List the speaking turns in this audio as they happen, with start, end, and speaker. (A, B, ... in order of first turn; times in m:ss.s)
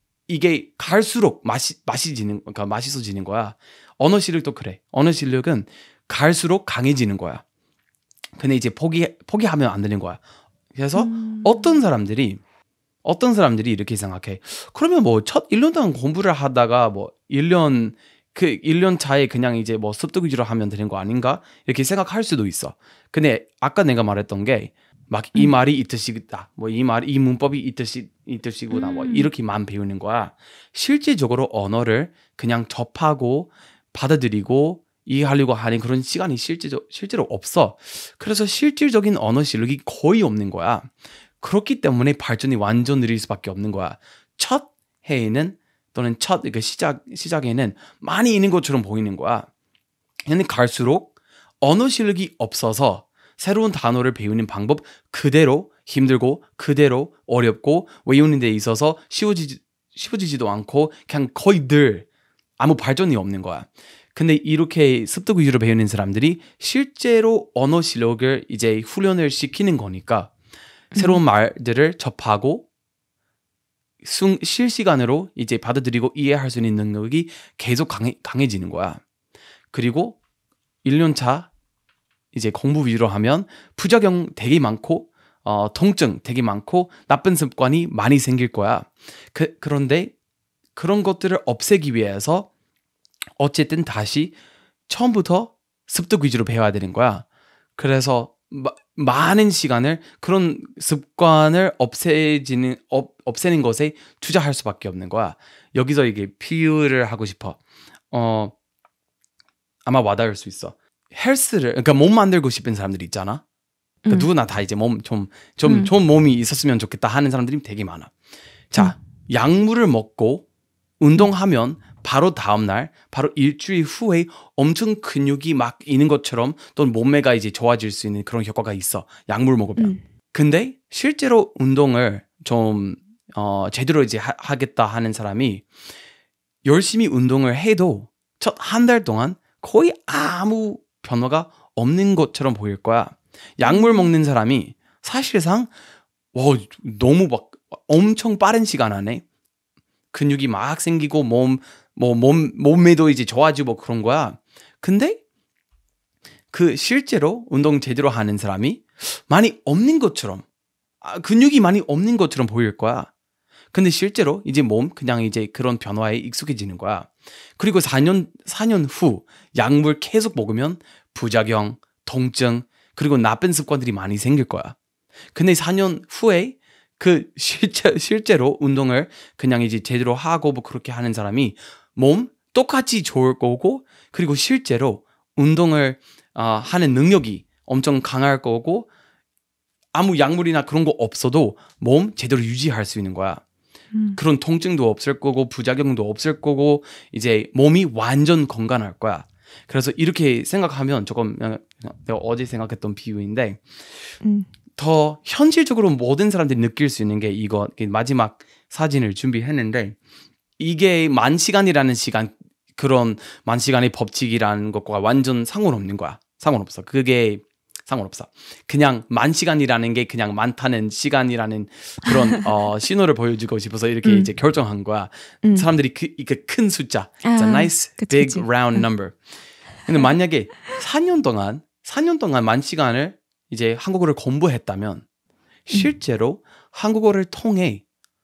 0:00.3-0:07.4 A
0:08.4-0:10.2 A
0:10.7-0:12.4 A
0:11.0-0:11.8 B
0:13.0-0:49.5 A
0:28.7-0:29.3 B
0:50.2-0:51.1 A
0:51.6-1:02.0 A
1:02.6-1:10.3 A
1:10.9-1:11.2 B
1:10.9-1:12.6 A
1:14.0-1:19.0 A
1:19.7-1:20.2 A
1:20.8-1:21.5 A
1:22.3-1:30.1 A
1:30.7-1:32.5 A
1:33.4-1:34.3 A
1:34.9-1:37.2 A
1:37.8-1:47.6 A
1:48.1-1:48.5 A
1:49.8-1:53.4 A
1:54.0-1:54.3 B
1:54.1-1:58.1 A
1:55.6-1:55.9 B
1:58.7-2:00.4 A
2:01.0-2:15.6 A
2:09.8-2:10.0 B
2:16.6-2:25.7 A
2:23.6-2:24.1 B
2:26.3-2:29.2 A
2:30.1-2:35.2 A
2:36.5-2:40.4 A
2:41.0-2:43.1 A
2:43.7-2:54.7 A
2:55.3-3:08.9 A
3:09.9-3:13.4 A
3:13.9-3:14.2 B
3:14.2-3:23.6 A
3:24.2-3:24.5 B
3:24.8-3:30.0 A
3:30.6-3:49.2 A
3:44.0-3:44.3 B
3:47.2-3:48.8 B
3:49.8-3:55.0 A
3:55.7-3:57.8 A